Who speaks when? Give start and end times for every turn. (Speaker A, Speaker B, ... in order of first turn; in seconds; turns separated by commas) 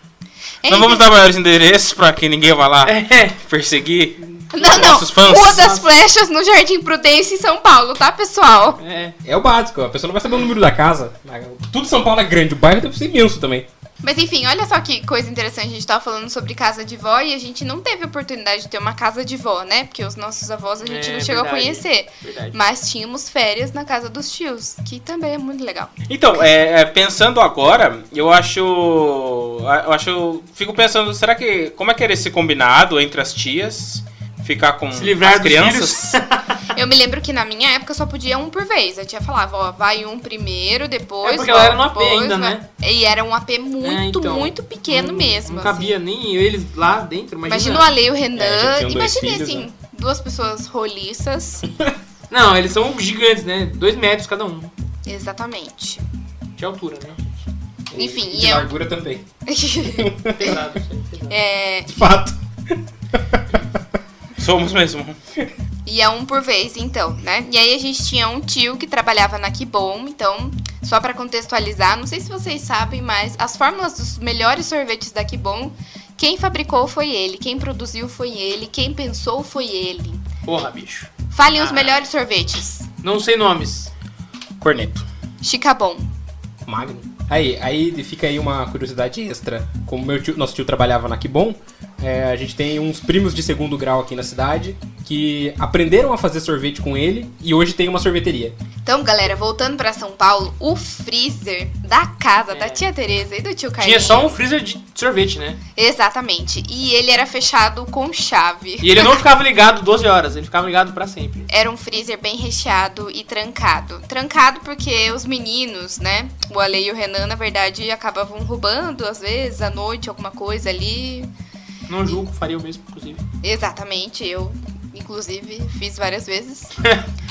Speaker A: 0.6-1.0, Speaker B: 0.7-5.7, Speaker C: 2.8-3.4, Speaker A: 4.5-8.8, Speaker C: 5.3-5.8, Speaker C: 8.8-9.2, Speaker D: 9.2-13.7, Speaker A: 14.0-25.9, Speaker C: 20.8-22.6, Speaker B: 26.1-36.2, Speaker C: 34.9-36.6, Speaker A: 36.7-46.0, Speaker C: 41.2-42.6, Speaker C: 43.8-47.9, Speaker A: 47.5-51.6, Speaker D: 48.3-49.7, Speaker C: 52.3-54.7, Speaker A: 55.0-56.0, Speaker C: 56.6-57.3, Speaker D: 57.9-59.2, Speaker A: 57.9-58.7, Speaker A: 59.5-60.5, Speaker D: 59.9-60.6, Speaker C: 60.4-61.4, Speaker A: 61.3-61.9, Speaker D: 61.9-63.7, Speaker B: 64.4-65.2, Speaker A: 65.8-80.2, Speaker C: 80.5-82.0, Speaker A: 81.3-82.9, Speaker C: 83.0-83.9, Speaker B: 84.6-85.0, Speaker A: 85.4-86.1, Speaker D: 86.7-98.5, Speaker A: 98.8-104.4, Speaker C: 102.5-102.8, Speaker C: 103.8-105.6, Speaker A: 105.8-109.2, Speaker C: 108.8-111.5, Speaker A: 111.5-121.3, Speaker C: 121.9-123.2, Speaker A: 123.4-126.7